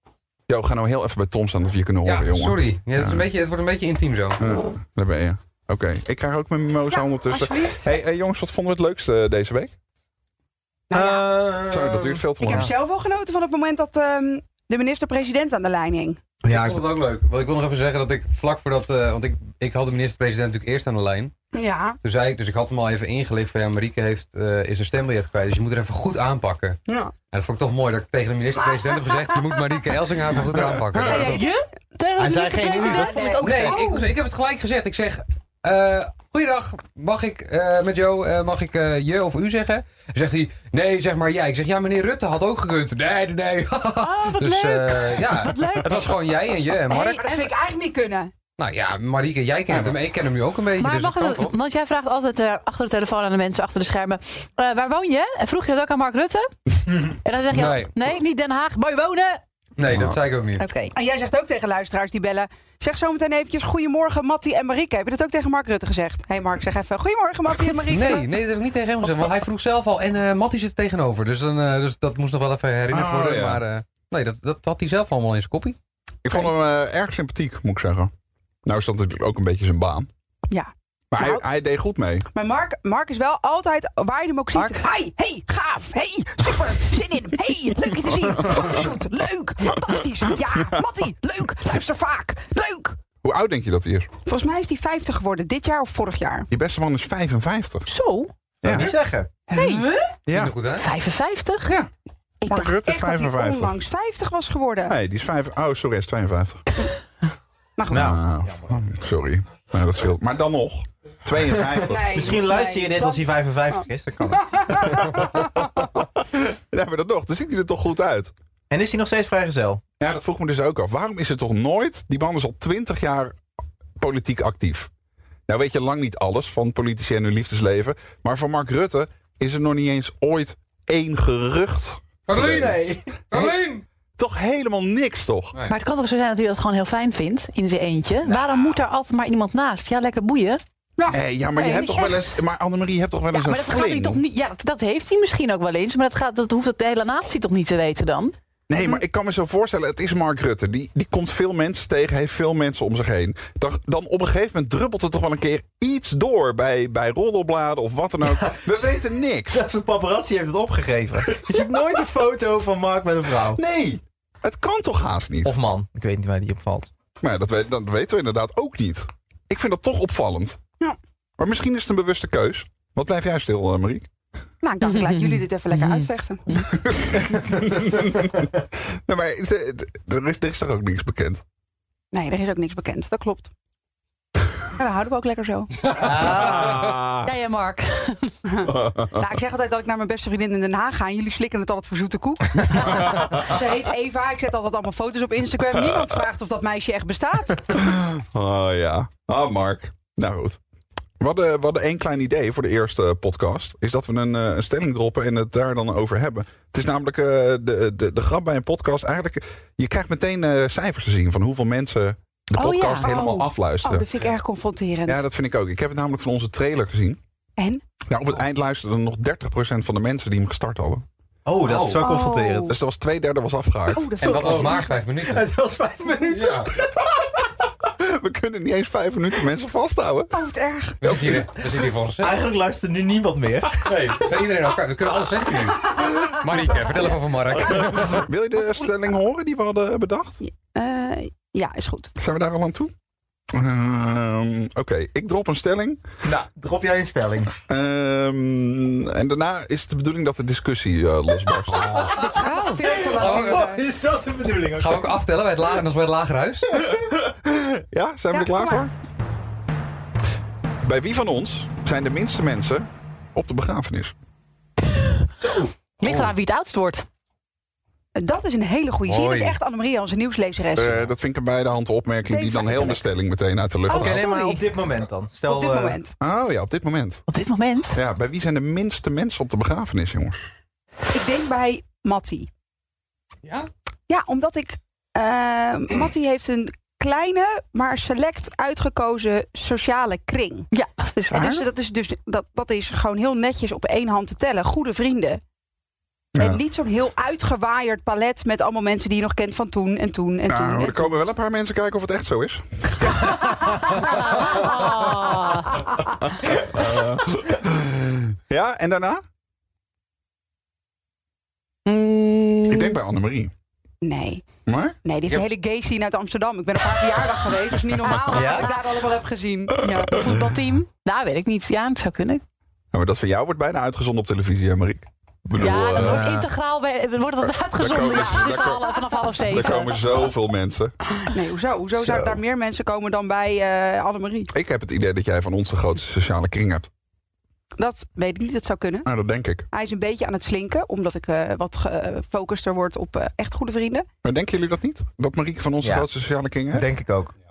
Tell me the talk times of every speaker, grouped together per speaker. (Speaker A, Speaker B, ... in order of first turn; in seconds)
Speaker A: 0.5-3.3, 4.4-9.7, 11.7-12.7, 59.9-60.2, 72.9-73.6, 76.2-78.1, 78.6-80.1, 81.1-82.3, 88.5-88.8, 93.2-94.1, 96.5-97.9, 98.6-98.9, 100.3-100.5, 101.6-101.9, 102.5-103.8, 104.9-106.6, 107.9-112.4, 116.3-118.3, 120.0-123.3, 124.0-124.9, 125.5-132.8, 134.2-135.5, 141.1-144.2, 148.7-159.6, 163.5-165.6, 167.2-170.6, 171.4-174.1, 176.7-181.4, 186.3-187.3, 188.6-189.2, 192.7-193.5, 197.7-200.6, 201.2-214.1, 215.1-217.2, 218.1-221.0, 222.7-224.1, 227.8-230.3, 237.7-240.4, 242.2-242.9, 243.5-246.0, 247.7-252.0, 256.8-258.9, 260.8-264.1, 270.8-274.2, 276.2-277.2, 277.9-280.4, 291.3-291.6, 296.3-296.6, 300.5-303.1, 306.2-309.2, 312.7-313.5, 314.6-314.9, 322.9-326.3, 327.4-330.9, 334.5-336.9, 339.0-339.7, 344.2-346.9
Speaker B: 2.0-4.4, 16.5-21.3, 22.0-26.8, 27.3-31.5, 33.4-47.3, 48.6-51.5, 57.5-57.9, 59.8-60.7, 67.9-75.8, 100.3-100.9, 132.3-133.8, 221.6-222.0, 224.2-225.5, 226.3-226.7, 231.0-232.4, 233.8-238.2, 253.0-253.8, 254.8-256.7, 269.1-269.6
Speaker C: 6.9-7.9, 10.9-11.2, 12.4-16.2, 21.5-22.0, 26.9-27.1, 31.1-31.5, 32.5-34.0, 47.0-48.3, 60.6-68.3, 80.5-81.4, 82.3-93.0, 94.2-96.5, 99.5-100.1, 102.4-105.0, 107.8-108.2, 111.8-115.5, 141.0-142.2, 174.6-176.6, 182.1-183.5, 184.8-185.7, 188.5-197.8, 212.6-215.2, 217.6-217.8, 222.0-222.8, 223.9-225.0, 230.3-231.2, 238.6-238.9, 240.4-242.1, 252.1-253.8, 258.3-258.9, 268.1-271.1, 272.2-273.1, 273.9-274.6, 275.4-276.1, 281.1-282.5, 284.1-290.7, 291.3-295.4, 296.4-301.1, 314.0-314.4, 315.0-320.2, 331.2-334.5, 337.8-339.1, 339.7-344.1
Speaker D: 10.9-12.7, 16.4-16.9, 32.2-34.0, 98.6-99.3, 107.9-108.2, 111.5-115.0, 118.7-119.8, 132.4-133.0, 158.2-159.0, 159.5-163.6, 165.4-166.9, 185.9-186.8, 221.4-222.8, 224.2-227.1, 232.2-234.2, 246.2-247.5, 251.7-255.2, 265.4-265.7, 273.9-276.0, 318.3-318.8, 325.9-326.5, 332.0-332.4, 345.8-346.1, 346.7-347.3
Speaker E: 31.0-33.4, 44.0-46.1, 46.9-47.3, 50.8-59.4, 97.9-98.3, 100.8-101.7, 135.7-140.6, 143.3-148.3, 174.8-176.0, 187.2-188.3, 266.0-267.1, 277.3-278.0, 290.7-291.6, 303.9-305.8, 311.9-313.0, 320.1-322.4, 325.6-330.1